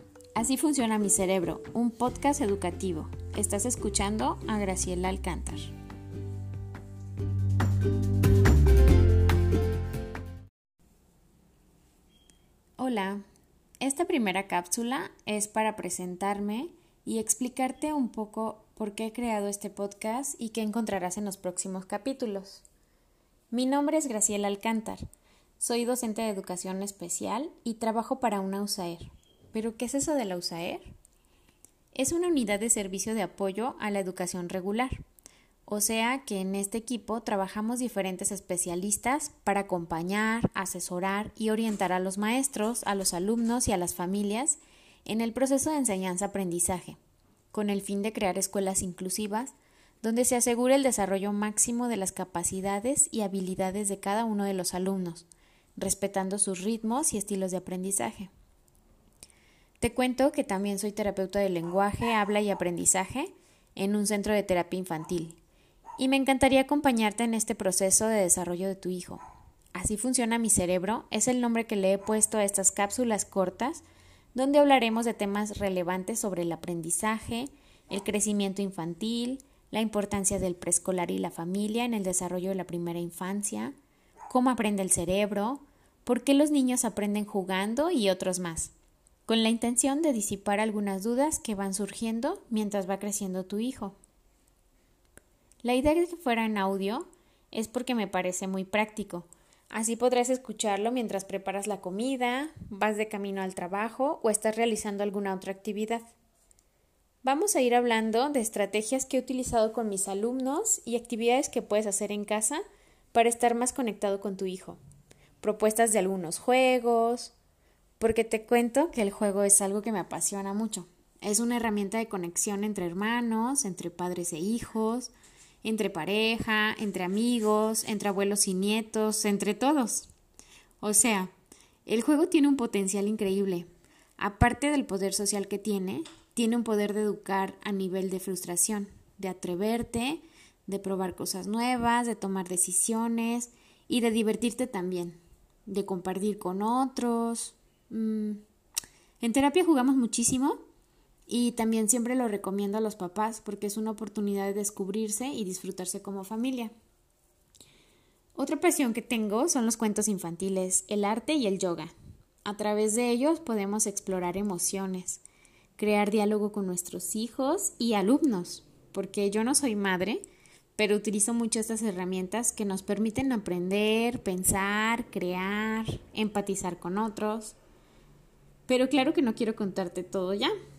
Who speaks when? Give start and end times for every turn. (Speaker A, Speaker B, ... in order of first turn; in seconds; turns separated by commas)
Speaker A: 0.3-5.7, Speaker A: 12.8-13.2, Speaker A: 13.8-22.6, Speaker A: 23.5-25.0, Speaker A: 25.6-30.9, Speaker A: 31.9-35.0, Speaker A: 35.6-47.0, Speaker A: 47.5-58.3, Speaker A: 59.8-65.4, Speaker A: 66.0-69.2, Speaker A: 69.7-83.7, Speaker A: 84.3-88.7, Speaker A: 89.2-94.0, Speaker A: 95.6-106.1, Speaker A: 107.2-112.6, Speaker A: 113.1-114.8, Speaker A: 115.4-117.3, Speaker A: 118.0-125.1, Speaker A: 125.6-130.1, Speaker A: 130.8-131.3, Speaker A: 131.8-148.4, Speaker A: 149.2-150.6, Speaker A: 151.3-156.7, Speaker A: 158.3-161.9, Speaker A: 162.4-165.2, Speaker A: 165.8-170.2, Speaker A: 170.8-177.6, Speaker A: 178.7-180.5